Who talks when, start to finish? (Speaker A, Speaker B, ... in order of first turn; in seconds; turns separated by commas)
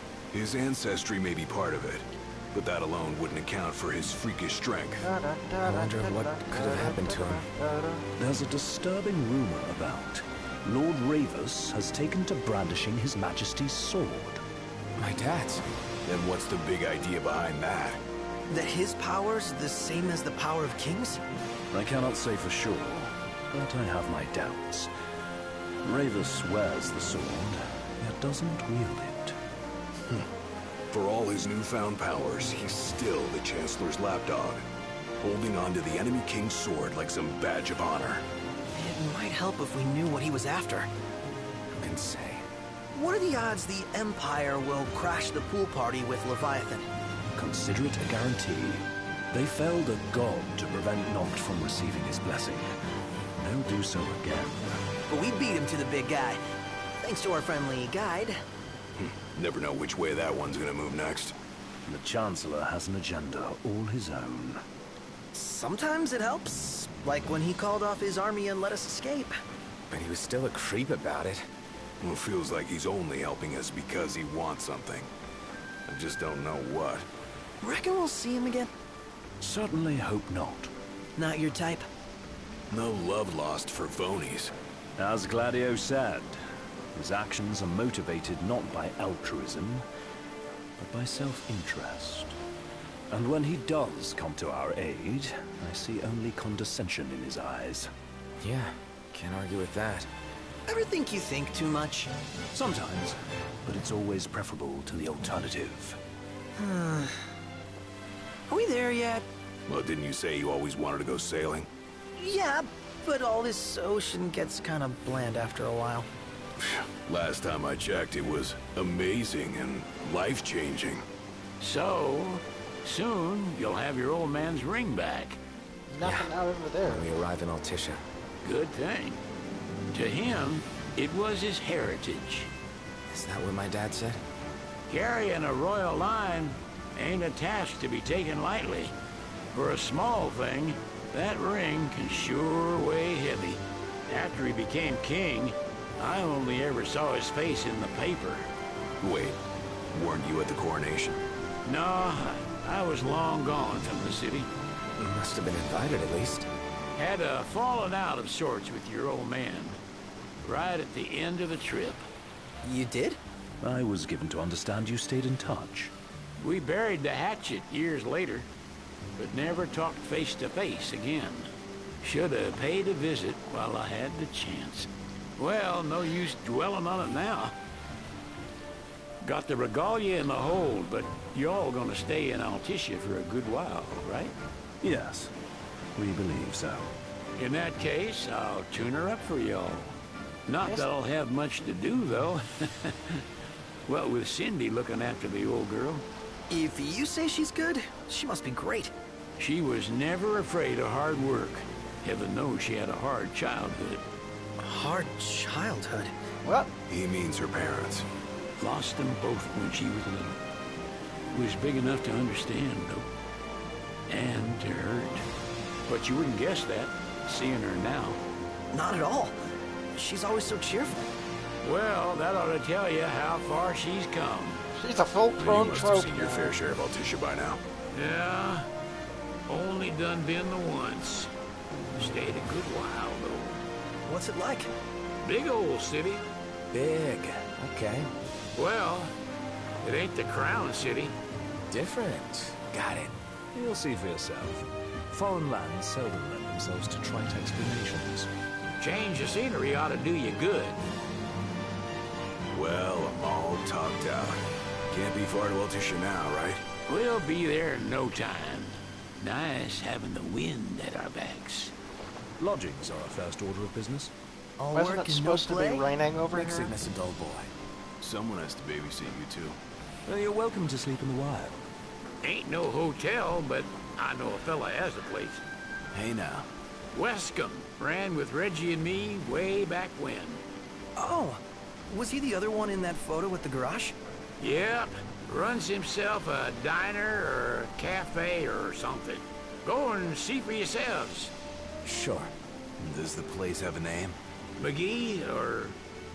Speaker A: 0.3-5.1, Speaker B: 5.0-8.1, Speaker C: 5.6-7.5, Speaker D: 8.2-14.4, Speaker C: 15.0-15.6, Speaker A: 16.1-18.0, Speaker E: 18.5-21.2, Speaker D: 21.7-24.9, Speaker D: 25.8-29.4, Speaker A: 30.9-34.6, Speaker A: 35.2-38.2, Speaker E: 38.7-40.9, Speaker C: 41.8-42.5, Speaker E: 42.9-46.9, Speaker D: 47.4-52.7, Speaker D: 53.4-54.8, Speaker E: 55.1-56.4, Speaker E: 57.0-58.4, Speaker A: 59.0-61.4, Speaker D: 61.9-64.6, Speaker E: 65.3-69.4, Speaker C: 69.9-71.5, Speaker A: 72.0-75.1, Speaker A: 75.9-77.1, Speaker E: 77.6-78.7, Speaker D: 79.4-80.7, Speaker E: 81.2-81.9, Speaker A: 82.7-84.5, Speaker D: 85.0-86.4, Speaker D: 86.9-89.8, Speaker D: 90.8-92.4, Speaker D: 93.1-97.9, Speaker C: 98.4-100.1, Speaker E: 100.7-102.2, Speaker D: 102.5-106.0, Speaker E: 106.6-107.3, Speaker E: 108.5-109.3, Speaker A: 109.7-111.7, Speaker E: 112.2-116.1, Speaker A: 116.6-121.1, Speaker F: 121.6-125.4, Speaker B: 125.9-127.1, Speaker C: 126.0-126.3, Speaker C: 126.8-128.0, Speaker F: 128.4-129.2, Speaker F: 129.9-132.5, Speaker C: 133.1-134.2, Speaker F: 134.9-138.9, Speaker F: 139.5-148.5, Speaker A: 149.0-149.4, Speaker A: 149.9-151.2, Speaker F: 151.7-154.5, Speaker C: 155.0-156.5, Speaker F: 157.0-159.8, Speaker F: 160.4-162.1, Speaker E: 162.6-163.2, Speaker D: 163.6-165.9, Speaker F: 166.4-168.5, Speaker F: 169.2-171.5, Speaker F: 172.0-177.5, Speaker F: 179.2-184.3, Speaker D: 184.8-185.3, Speaker D: 186.0-186.9, Speaker F: 187.4-190.0, Speaker F: 190.5-193.3, Speaker F: 193.9-196.1, Speaker E: 196.5-198.9, Speaker F: 199.4-204.0, Speaker E: 204.6-206.1, Speaker B: 206.4-206.7, Speaker A: 206.9-208.1, Speaker F: 208.6-210.4, Speaker F: 211.3-213.1, Speaker F: 214.1-215.2, Speaker F: 215.8-218.2, Speaker E: 218.7-219.4, Speaker E: 219.9-221.0, Speaker F: 221.6-224.7, Speaker B: 224.8-226.6, Speaker A: 225.4-227.6, Speaker F: 227.9-228.7, Speaker F: 229.5-231.3, Speaker F: 232.0-233.6, Speaker E: 234.1-234.7, Speaker F: 235.2-236.2, Speaker C: 236.7-238.1, Speaker F: 238.6-239.1, Speaker F: 239.8-241.1, Speaker C: 241.7-243.1, Speaker D: 243.5-248.3, Speaker F: 248.8-250.8, Speaker A: 252.5-256.6, Speaker F: 256.9-261.7, Speaker D: 262.4-264.1, Speaker E: 264.6-265.9, Speaker B: 264.7-266.7, Speaker D: 266.4-267.5, Speaker A: 268.0-269.6, Speaker D: 270.1-271.7, Speaker F: 272.2-275.4, Speaker A: 275.9-276.5, Speaker F: 276.9-280.4, Speaker E: 281.0-283.9, Speaker F: 284.4-291.3, Speaker C: 291.8-292.3, Speaker A: 292.8-294.2, Speaker F: 294.6-295.8